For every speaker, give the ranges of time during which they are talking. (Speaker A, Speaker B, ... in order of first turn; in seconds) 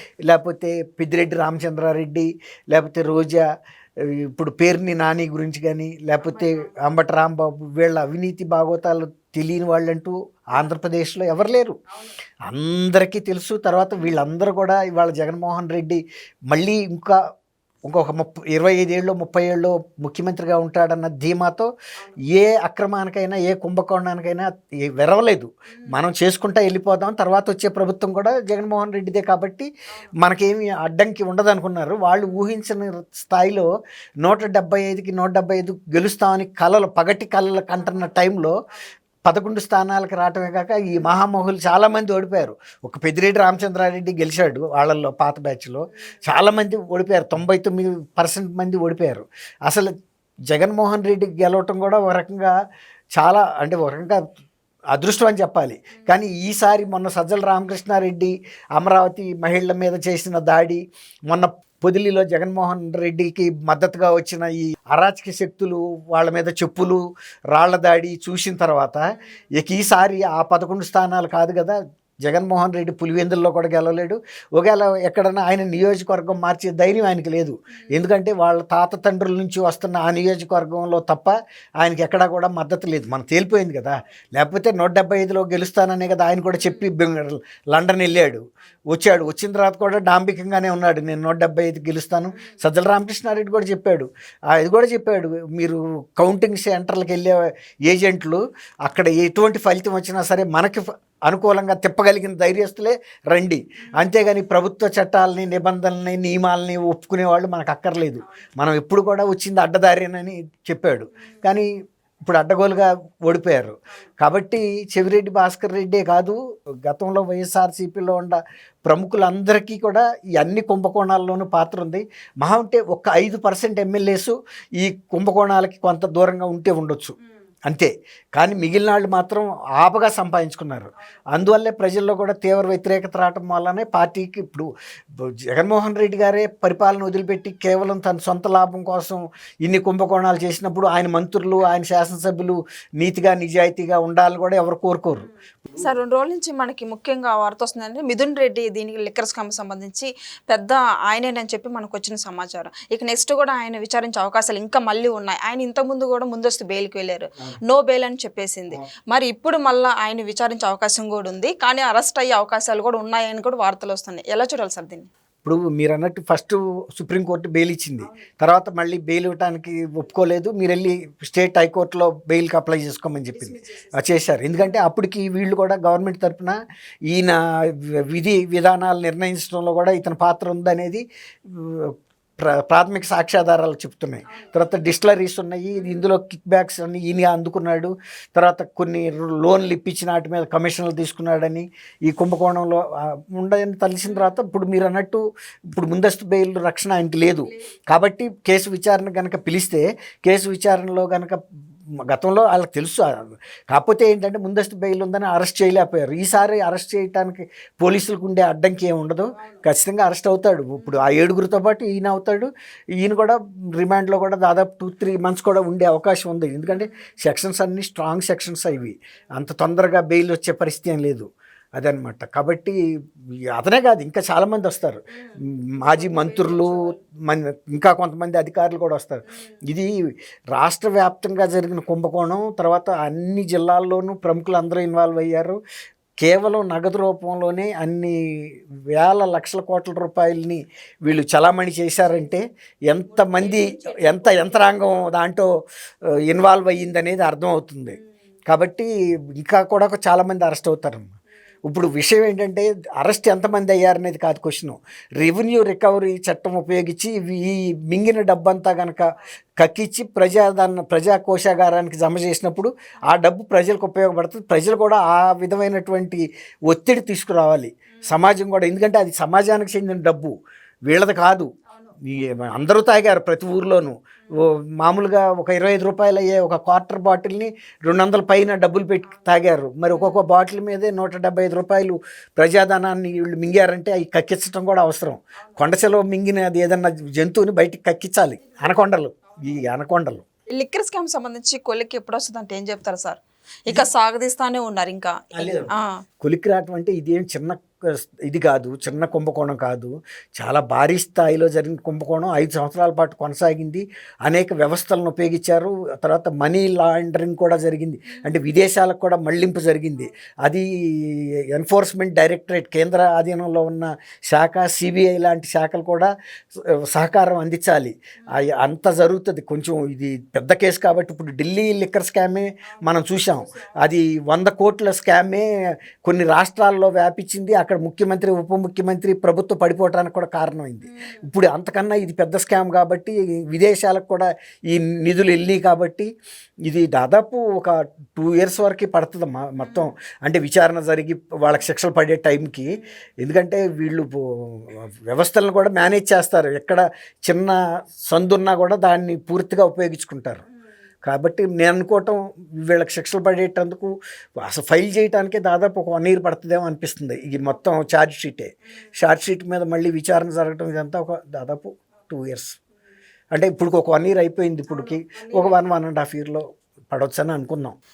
Speaker A: 0.2-3.5, 4.0-11.8, 12.5-17.2, 17.8-21.7, 22.3-33.7, 34.2-38.5, 39.2-49.9, 50.5-52.5, 53.1-54.2, 54.9-67.0, 67.5-69.0, 69.5-111.7, 112.2-127.1, 127.7-145.3, 165.4-176.6, 177.1-201.4, 202.1-222.8, 223.5-229.9, 230.5-235.6, 236.2-245.5, 246.3-251.1, 251.6-259.0, 259.6-270.3, 270.9-271.5, 272.0-290.2, 295.3-325.4, 326.0-336.1, 336.7-350.4, 351.0-362.6, 363.3-367.8
Speaker B: 145.7-165.1, 173.3-174.1, 216.7-216.9, 225.3-226.9, 243.1-244.6, 279.9-280.2, 290.5-296.0, 330.9-331.2, 339.6-339.9, 365.1-365.5